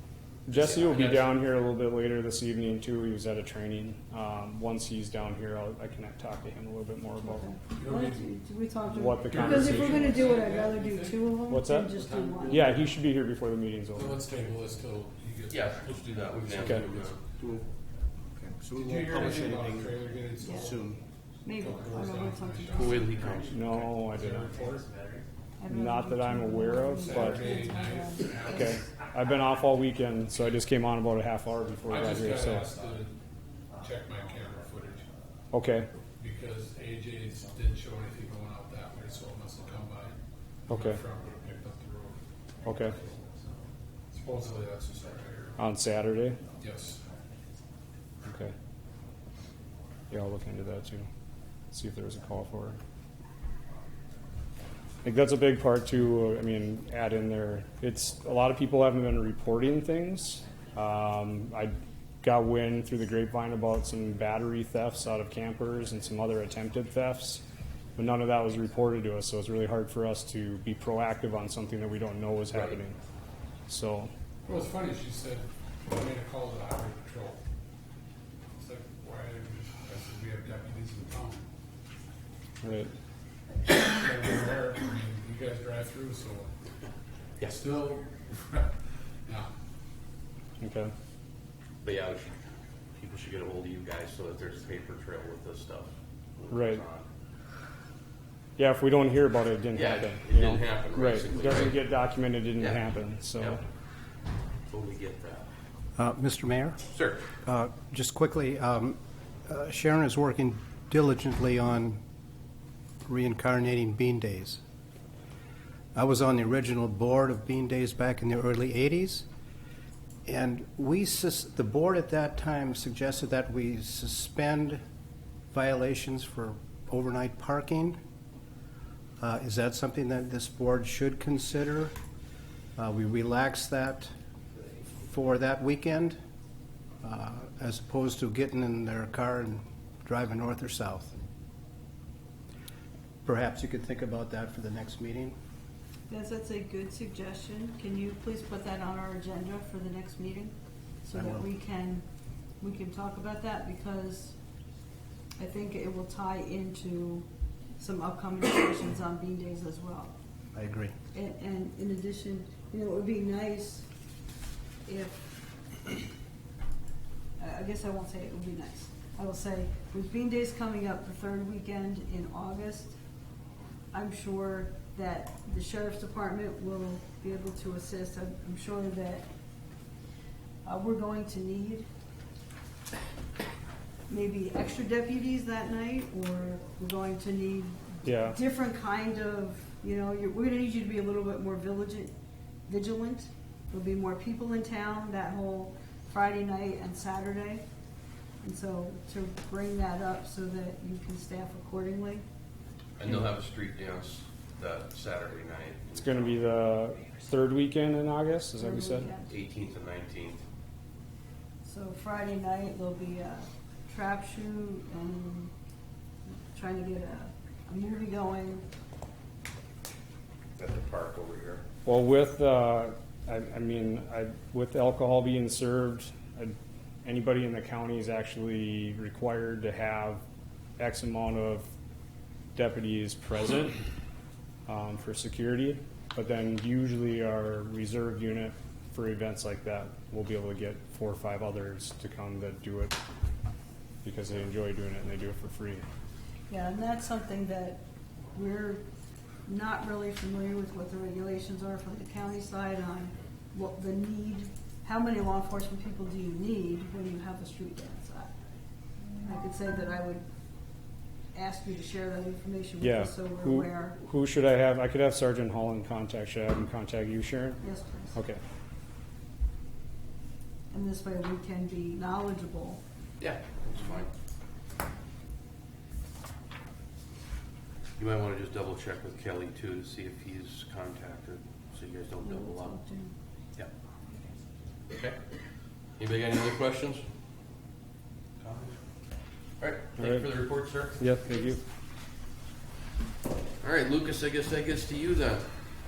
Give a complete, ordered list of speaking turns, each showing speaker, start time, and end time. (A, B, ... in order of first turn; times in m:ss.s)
0:00.5-0:07.4 A
0:00.5-0:01.3 B
0:07.2-0:12.7 C
0:07.8-0:08.3 D
0:08.9-0:10.3 A
0:09.2-0:11.4 D
0:11.4-0:14.2 A
0:11.9-0:12.8 D
0:13.9-0:16.1 D
0:15.5-0:17.2 B
0:16.6-0:16.9 A
0:18.4-0:21.0 E
0:18.7-0:20.8 D
0:20.4-0:20.8 C
0:21.4-0:23.1 C
0:21.5-0:25.0 D
0:22.7-0:23.8 B
0:23.5-0:24.6 A
0:25.6-0:28.8 C
0:25.7-0:27.5 A
0:27.0-0:28.9 D
0:28.4-0:32.7 A
0:31.9-0:33.2 D
0:33.7-0:35.0 D
0:35.5-0:35.9 A
0:36.2-0:42.2 D
0:40.7-0:41.0 A
0:42.6-0:43.0 A
0:44.1-0:45.6 D
0:45.6-0:46.4 A
0:46.6-0:47.0 D
0:48.2-0:48.5 A
0:50.1-0:51.1 A
0:51.7-0:52.8 A
0:55.0-1:07.4 A
1:08.0-1:13.0 A
1:12.5-1:12.8 B
1:13.7-1:14.1 A
1:14.4-1:17.4 D
1:18.6-1:21.4 D
1:22.6-1:22.9 A
1:23.7-1:26.5 D
1:27.4-1:27.6 B
1:27.4-1:28.7 D
1:30.6-1:30.9 A
1:31.8-1:32.3 B
1:33.0-1:37.1 B
1:36.5-1:36.8 A
1:38.6-1:43.6 A
1:39.7-1:41.9 B
1:42.6-1:43.6 B
1:44.7-1:45.5 B
1:46.0-1:46.8 E
1:46.9-1:47.2 B
1:47.4-1:52.0 E
1:53.0-1:54.6 E
1:55.9-1:59.2 E
2:00.2-2:04.8 E
2:05.5-2:08.0 E
2:09.2-2:11.9 E
2:12.8-2:14.1 E
2:15.0-2:16.2 E
2:17.0-2:21.2 E
2:23.2-2:25.4 E
2:26.1-2:32.0 C
2:31.1-2:31.4 E
2:32.6-2:34.3 C
2:35.4-2:37.3 C
2:37.8-2:40.1 C
2:40.5-2:40.9 E
2:41.1-2:43.9 C
2:44.8-2:45.3 C
2:47.4-2:53.0 C
2:53.9-2:59.3 C
3:00.6-3:01.8 C
3:04.1-3:12.1 C
3:08.0-3:08.4 A
3:12.7-3:17.6 C
3:18.4-3:22.2 C
3:23.0-3:26.5 B
3:25.9-3:29.1 A
3:28.6-3:29.4 C
3:29.3-3:30.4 B
3:31.6-3:35.5 C
3:36.5-3:38.6 C
3:40.6-3:41.6 B
3:41.8-3:50.2 A
3:50.8-3:51.7 A
3:52.6-3:53.8 A
3:54.7-4:03.0 A
4:04.0-4:05.8 A
4:06.5-4:07.8 C
4:08.3-4:08.8 C
4:09.4-4:18.3 C
4:19.2-4:20.2 C
4:21.3-4:24.0 C
4:22.8-4:28.4 A
4:27.6-4:28.2 C
4:30.7-4:32.8 C
4:33.2-4:34.1 B
4:38.0-4:42.8 B
4:42.2-4:43.1 C
4:44.9-4:45.2 B
4:46.0-4:47.0 B
4:48.4-4:48.8 B
4:49.6-4:51.0 B
4:50.0-4:50.2 A
4:51.0-4:51.6 A
4:53.6-4:55.5 B